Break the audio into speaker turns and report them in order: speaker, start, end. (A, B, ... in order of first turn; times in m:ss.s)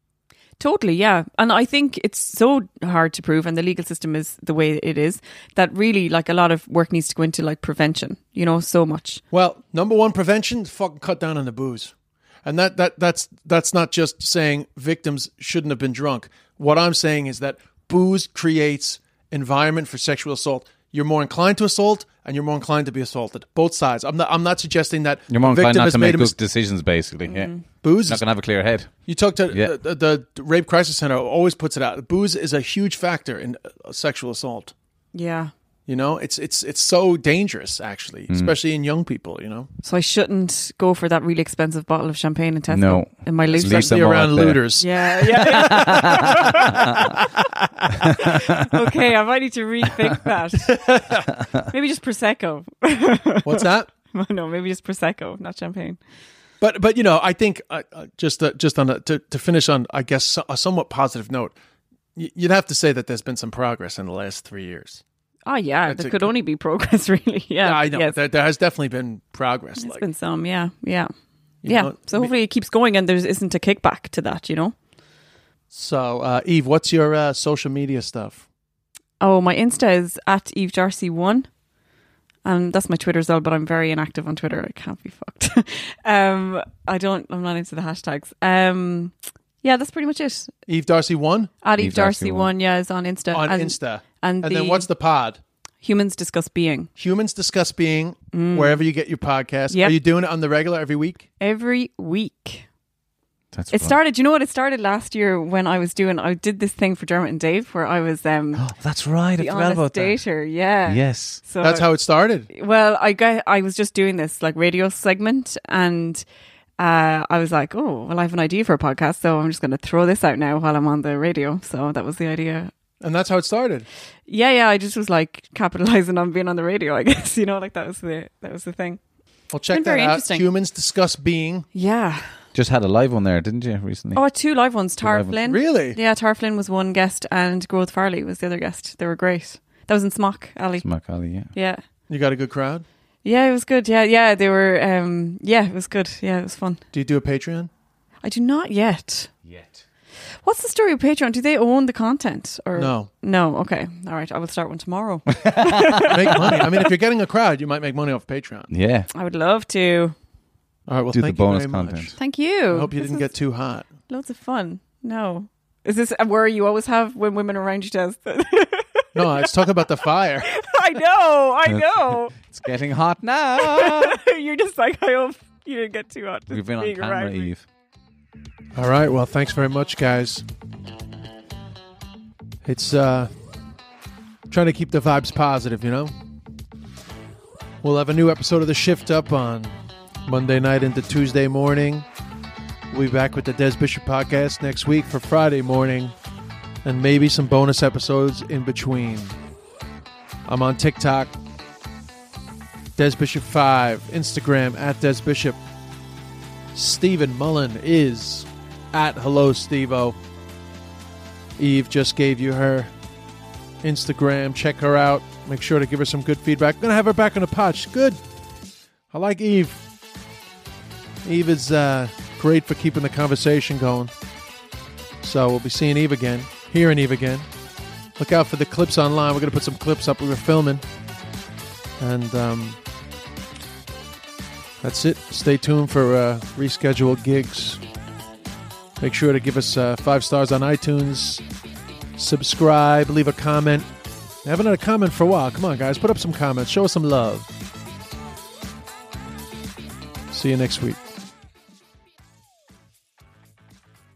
0:00.6-0:09.2 A
0:09.3-0:11.9 B
0:12.4-0:26.4 B
0:25.3-0:27.5 C
0:27.3-0:27.6 A
0:27.8-0:28.2 B
0:28.0-0:28.9 C
0:29.1-0:34.7 B
0:35.1-0:35.5 A
0:35.9-0:39.7 B
0:38.3-0:38.5 C
0:39.8-0:44.0 A
0:42.7-0:44.7 C
0:43.5-0:46.8 B
0:44.8-0:47.3 A
0:45.4-0:46.1 C
0:48.1-0:50.8 A
0:50.6-0:51.3 B
0:51.7-0:56.0 A
0:53.4-0:53.9 B
0:56.6-1:01.5 B
1:02.2-1:05.0 B
1:05.5-1:08.1 A
1:05.9-1:06.3 B
1:07.6-1:10.1 B
1:09.8-1:11.1 A
1:11.6-1:12.3 B
1:11.7-1:14.8 A
1:15.7-1:18.4 B
1:19.2-1:21.5 A
1:22.4-1:30.5 A
1:30.7-1:31.5 B
1:31.6-1:34.9 A
1:31.8-1:32.5 C
1:33.3-1:35.4 B
1:35.8-1:36.9 A
1:37.0-1:41.3 B
1:38.3-1:38.8 A
1:39.7-1:40.0 A
1:41.4-1:42.6 A
1:43.5-1:44.0 C
1:43.7-1:48.6 A
1:48.6-1:50.2 C
1:49.4-1:51.9 A
1:50.9-1:51.4 C
1:51.6-1:52.5 B
1:52.5-1:56.2 A
1:56.8-2:02.7 A
2:03.0-2:03.9 B
2:04.3-2:09.0 A
2:09.5-2:11.7 B
2:09.7-2:10.4 A
2:11.7-2:12.3 A
2:12.5-2:14.2 C
2:14.2-2:20.9 A
2:15.0-2:15.4 C
2:15.4-2:16.0 B
2:20.8-2:21.5 C
2:21.5-2:21.8 A
2:22.1-2:22.8 B
2:23.2-2:26.8 A
2:26.9-2:27.7 B
2:28.2-2:29.4 A
2:29.5-2:29.7 C
2:30.4-2:36.7 A
2:32.7-2:33.1 B
2:35.4-2:36.3 C
2:36.0-2:38.7 B
2:38.7-2:39.1 C
2:39.1-2:40.2 A
2:40.9-2:42.2 B
2:41.1-2:42.1 C
2:42.2-2:43.3 A
2:42.7-2:43.9 B
2:44.1-2:49.5 A
2:49.2-2:50.6 B
2:50.5-2:52.4 A
2:51.7-2:54.2 C
2:53.6-2:57.5 A
2:56.5-2:57.6 C
2:58.8-3:00.5 B
3:02.6-3:03.3 B
3:04.5-3:06.1 B
3:07.8-3:09.7 B
3:10.2-3:12.1 B
3:12.9-3:16.2 B
3:16.8-3:19.4 B
3:20.5-3:21.4 B
3:23.0-3:25.6 B
3:26.7-3:30.2 B
3:31.6-3:32.9 B
3:33.8-3:38.2 B
3:39.1-3:39.8 B
3:41.2-3:44.1 B
3:45.2-3:47.5 B
3:48.2-3:50.8 B
3:52.0-3:52.8 B
3:54.8-3:57.8 B
3:59.0-4:01.4 B
4:02.2-4:03.9 B
4:04.4-4:07.5 B
4:10.3-4:11.0 B